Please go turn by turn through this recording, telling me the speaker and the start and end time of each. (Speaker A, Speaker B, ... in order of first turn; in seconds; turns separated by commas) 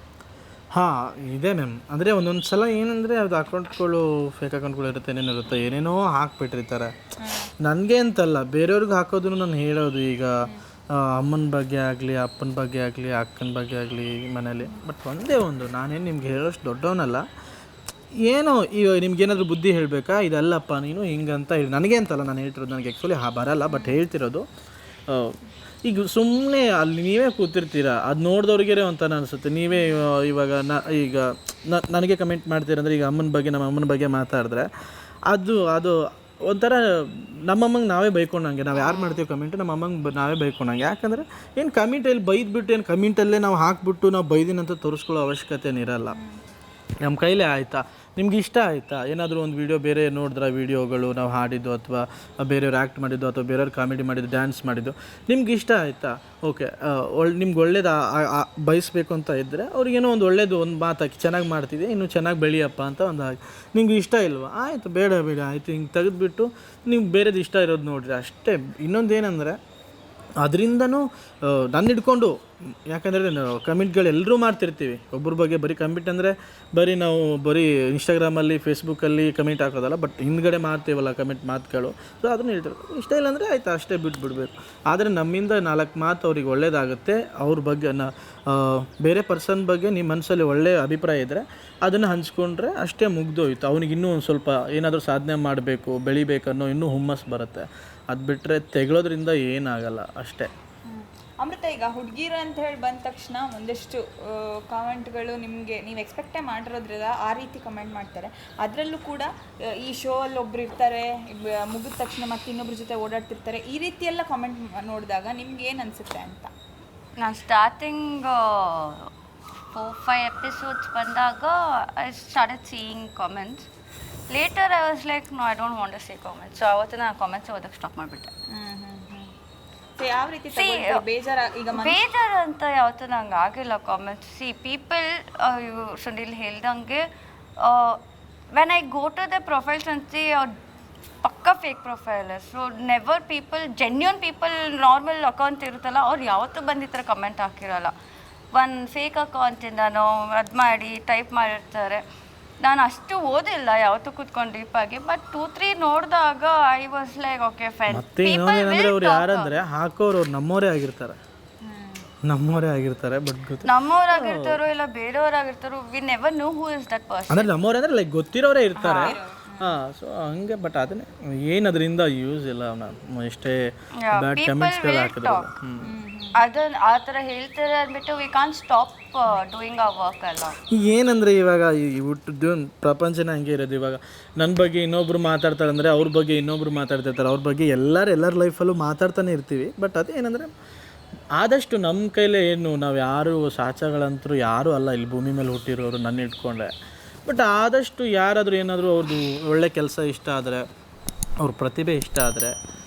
Speaker A: 0.7-6.9, Speaker B: 7.2-7.5, Speaker A: 7.6-10.3, Speaker A: 10.9-17.2, Speaker A: 18.3-24.4, Speaker B: 23.7-24.0, Speaker A: 25.1-34.7, Speaker A: 35.3-46.2, Speaker A: 47.0-69.6, Speaker A: 70.4-72.3, Speaker A: 72.9-100.5, Speaker B: 100.9-116.5, Speaker C: 117.2-119.1, Speaker C: 119.7-123.7, Speaker C: 124.3-128.3, Speaker B: 128.5-129.3, Speaker B: 130.0-132.0, Speaker C: 130.5-131.0, Speaker C: 131.7-137.1, Speaker C: 137.6-140.5, Speaker C: 141.2-147.9, Speaker C: 148.5-152.0, Speaker C: 152.6-159.5, Speaker A: 157.9-161.2, Speaker B: 161.7-162.1, Speaker A: 162.2-164.6, Speaker C: 163.6-167.5, Speaker A: 167.3-175.9, Speaker C: 168.8-169.2, Speaker B: 168.8-169.8, Speaker C: 174.0-175.5, Speaker B: 175.8-176.4, Speaker C: 176.4-180.6, Speaker A: 180.7-190.5, Speaker A: 191.4-196.7, Speaker A: 197.3-200.6, Speaker A: 201.4-202.5